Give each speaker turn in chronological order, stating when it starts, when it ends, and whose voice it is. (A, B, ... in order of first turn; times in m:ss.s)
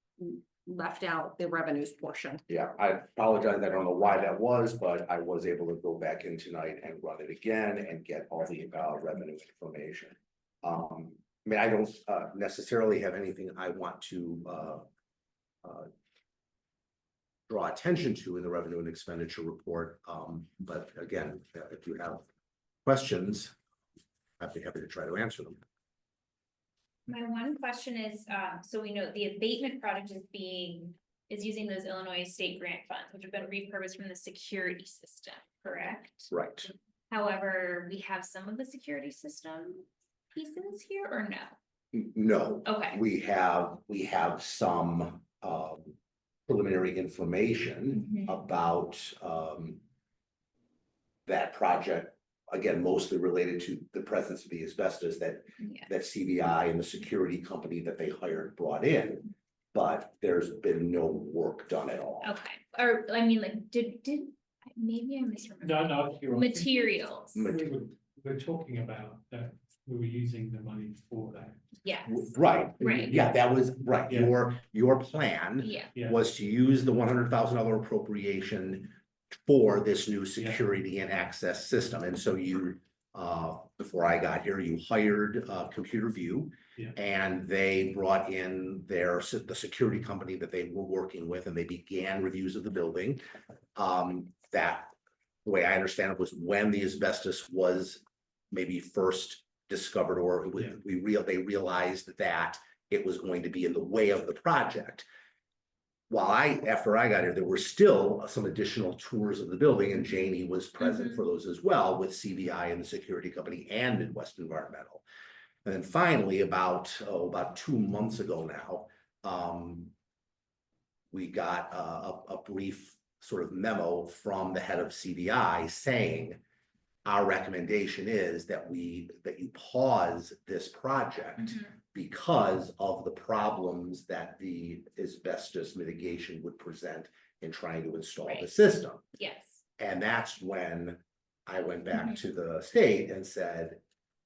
0:00.2-0:02.4 A
0:02.5-0:14.9 B
0:15.6-0:15.9 B
0:17.5-0:22.2 B
0:22.8-0:23.5 B
0:24.4-0:25.6 B
0:27.1-0:36.3 C
0:36.3-0:36.7 B
0:37.1-0:41.6 C
0:41.9-0:46.0 B
0:42.6-0:43.0 C
0:46.5-0:49.8 B
0:47.9-0:48.3 C
0:51.3-1:02.3 B
0:55.6-0:55.9 C
1:02.2-1:07.4 C
1:05.6-1:11.6 D
1:07.4-1:07.7 B
1:11.8-1:13.1 C
1:12.1-1:33.2 B
1:14.1-1:14.4 D
1:15.6-1:15.9 C
1:33.8-1:34.9 B
1:35.4-1:45.1 B
1:46.1-1:55.0 B
1:50.8-1:51.2 C
1:55.6-1:59.9 B
2:01.1-2:06.4 B
2:07.0-2:19.1 B
2:11.4-2:11.7 C
2:19.2-2:19.6 C
2:19.8-2:23.8 B
2:21.9-2:22.2 C